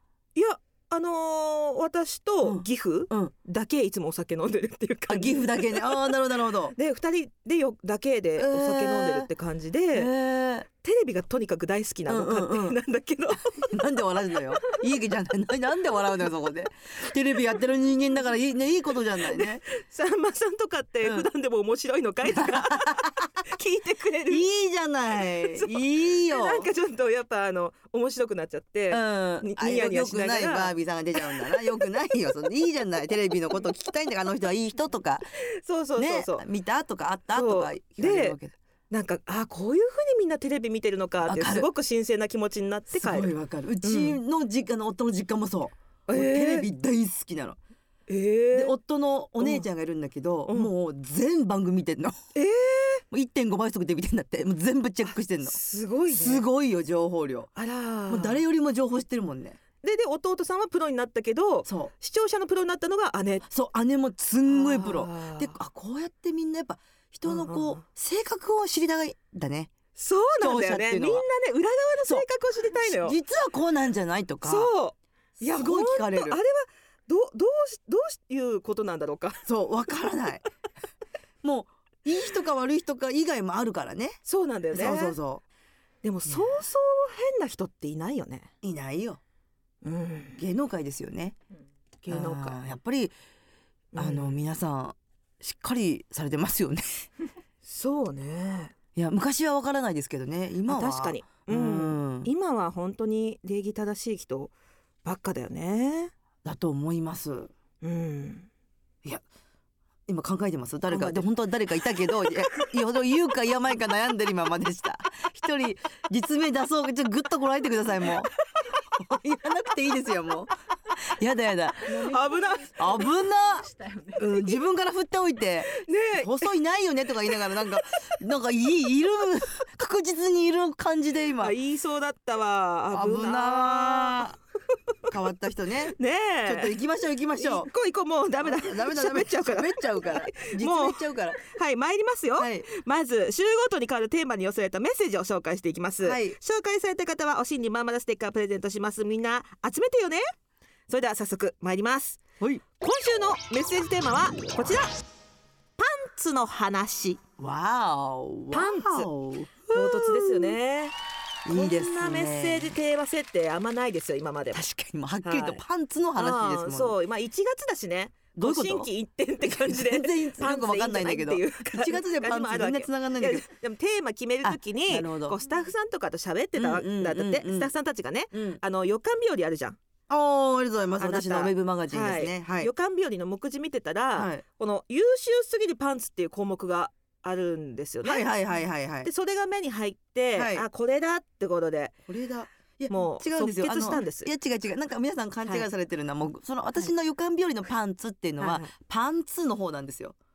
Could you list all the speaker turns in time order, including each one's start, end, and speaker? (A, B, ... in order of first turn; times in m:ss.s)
0:00.4-0:06.0 A
0:02.4-0:03.3 B
0:05.1-0:06.8 B
0:06.8-0:10.1 A
0:08.4-0:09.3 B
0:09.9-0:10.7 B
0:10.8-0:13.8 A
0:12.1-0:12.8 B
0:13.7-0:19.6 B
0:19.3-0:24.4 A
0:22.2-0:23.3 B
0:24.3-0:26.7 B
0:25.5-0:31.6 A
0:28.9-0:35.2 B
0:35.4-0:36.4 A
0:36.0-0:38.6 B
0:37.3-0:38.4 A
0:38.9-0:43.3 A
0:41.2-0:41.7 B
0:42.9-0:47.6 B
0:43.8-0:44.2 A
0:46.1-0:46.7 A
0:48.1-0:48.8 A
0:48.5-0:52.2 B
0:49.4-0:49.7 A
0:52.4-0:53.0 A
0:53.1-0:55.6 B
0:55.5-0:56.4 A
0:56.1-0:57.5 B
0:57.6-0:58.4 A
0:58.1-0:59.6 B
0:59.8-1:03.5 A
1:01.6-1:01.9 B
1:03.5-1:09.7 B
1:04.5-1:05.6 A
1:07.3-1:07.8 A
1:10.0-1:13.2 A
1:10.4-1:11.2 B
1:12.8-1:14.7 B
1:14.4-1:19.4 A
1:15.4-1:16.4 B
1:19.4-1:20.4 B
1:21.4-1:24.2 B
1:24.2-1:25.2 A
1:24.7-1:25.4 B
1:26.0-1:28.5 A
1:26.3-1:26.6 B
1:28.6-1:29.2 B
1:29.8-1:30.4 A
1:30.4-1:31.4 B
1:32.0-1:32.6 A
1:32.1-1:33.1 B
1:33.9-1:34.4 A
1:34.0-1:37.1 B
1:37.6-1:38.7 A
1:38.9-1:42.3 B
1:40.7-1:44.5 A
1:45.0-1:46.1 A
1:46.4-1:47.5 B
1:47.8-1:48.5 A
1:50.1-1:58.3 B
1:50.9-1:51.3 A
1:52.2-1:52.6 A
1:58.9-2:02.2 B
2:01.9-2:03.1 A
2:02.8-2:11.6 B
2:03.8-2:04.3 A
2:05.7-2:06.4 A
2:11.4-2:14.3 A
2:12.9-2:14.4 B
2:15.1-2:17.7 B
2:15.9-2:16.8 A
2:17.4-2:30.2 A
2:18.4-2:21.4 B
2:22.4-2:22.7 B
2:26.0-2:26.4 B
2:30.9-2:32.2 A
2:32.8-2:34.9 A
2:35.8-2:37.2 A
2:37.4-2:40.6 B
2:38.5-2:39.1 A
2:39.7-2:40.9 A
2:41.4-2:42.7 B
2:41.5-2:44.6 A
2:44.5-2:46.9 B
2:45.2-2:45.6 A
2:46.2-2:59.8 A
2:48.4-2:48.9 B
2:49.4-2:53.4 B
2:54.4-2:55.4 B
2:56.6-2:57.7 B
2:58.3-2:58.6 B
3:00.1-3:02.7 B
3:01.0-3:08.3 A
3:04.1-3:04.4 B
3:08.0-3:09.1 B
3:09.0-3:12.0 A
3:10.4-3:10.7 B
3:12.1-3:20.1 B
3:12.9-3:14.3 A
3:18.4-3:18.7 A